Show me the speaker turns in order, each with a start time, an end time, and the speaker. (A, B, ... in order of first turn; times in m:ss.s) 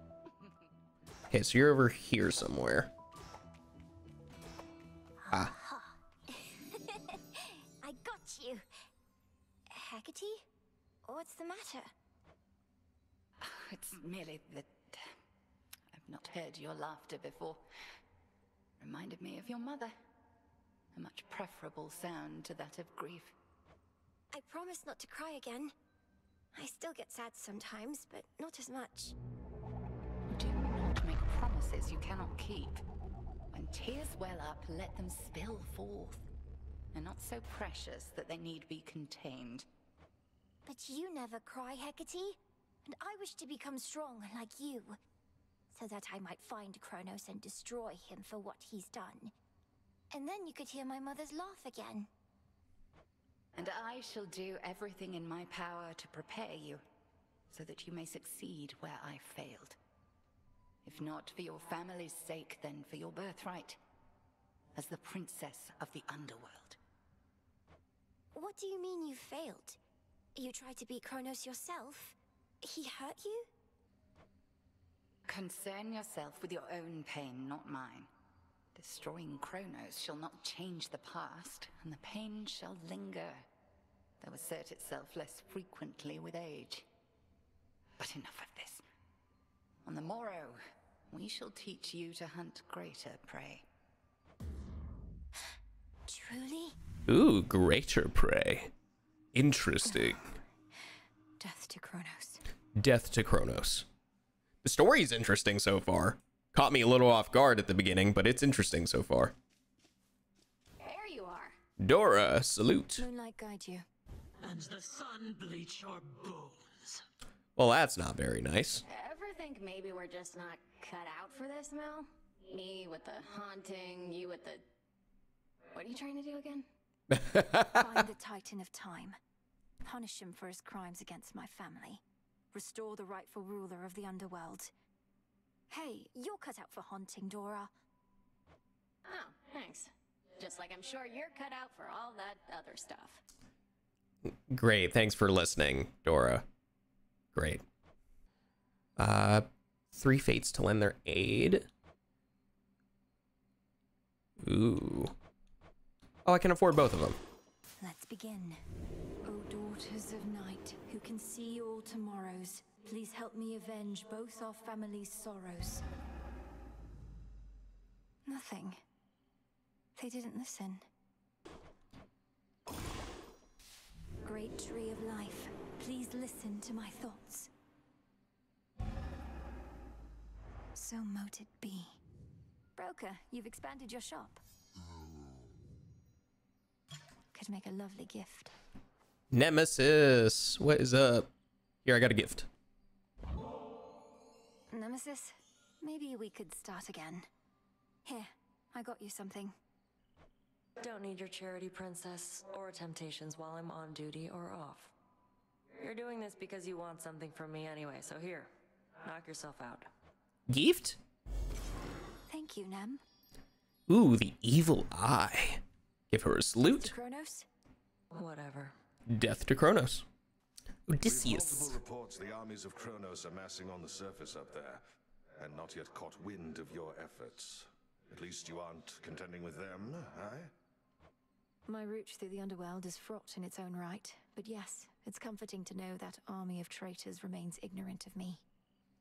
0:01.3-0:02.9 A
0:05.2-0:08.7 B
0:09.7-0:10.4 B
0:11.0-0:11.9 B
0:13.4-0:15.1 C
0:15.9-0:17.6 C
0:18.8-0:20.0 C
0:20.9-0:23.3 C
0:24.3-0:25.8 B
0:26.5-0:29.2 B
0:30.3-0:32.8 C
0:33.5-0:36.3 C
0:36.9-0:39.7 C
0:40.6-0:45.0 B
0:45.7-0:49.3 B
0:50.1-0:52.1 B
0:53.6-0:56.8 C
0:57.5-0:59.8 C
1:00.8-1:03.8 C
1:04.8-1:06.8 C
1:08.3-1:09.8 B
1:10.4-1:13.5 B
1:15.3-1:18.1 C
1:18.8-1:23.4 C
1:24.2-1:26.9 C
1:28.0-1:28.8 C
1:29.8-1:30.6 C
1:31.1-1:33.7 C
1:36.1-1:36.8 B
1:37.1-1:38.7 A
1:39.3-1:40.3 A
1:39.9-1:40.2 B
1:40.8-1:42.4 B
1:42.8-1:43.8 A
1:44.6-1:49.3 A
1:50.8-1:51.6 D
1:51.8-1:53.1 A
1:53.0-1:53.9 B
1:54.4-1:57.0 E
1:57.6-1:58.8 A
1:58.8-2:04.6 D
2:05.7-2:06.7 D
2:07.1-2:08.0 A
2:07.8-2:09.2 B
2:09.8-2:14.7 B
2:15.7-2:17.7 B
2:19.1-2:23.2 D
2:24.2-2:26.4 A
2:27.3-2:27.6 A
2:29.0-2:31.7 A
2:34.4-2:35.1 A
2:36.2-2:37.2 A
2:37.8-2:38.6 B
2:39.2-2:45.8 B
2:48.2-2:48.8 B
2:50.0-2:50.9 B
2:54.2-2:57.5 B
3:00.8-3:02.0 B
3:02.8-3:04.4 B
3:07.3-3:08.5 B
3:09.3-3:11.3 A
3:11.8-3:12.5 A
3:14.7-3:17.3 B
3:18.0-3:19.6 B
3:20.8-3:24.9 F
3:25.8-3:28.5 F
3:29.0-3:29.9 F
3:30.5-3:31.0 A
3:32.3-3:33.0 B
3:33.9-3:36.9 A
3:36.8-3:37.5 B
3:38.1-3:38.8 F
3:39.1-3:40.0 A
3:40.9-3:41.8 A
3:41.0-3:44.8 G
3:45.4-3:50.5 G
3:51.7-3:58.4 B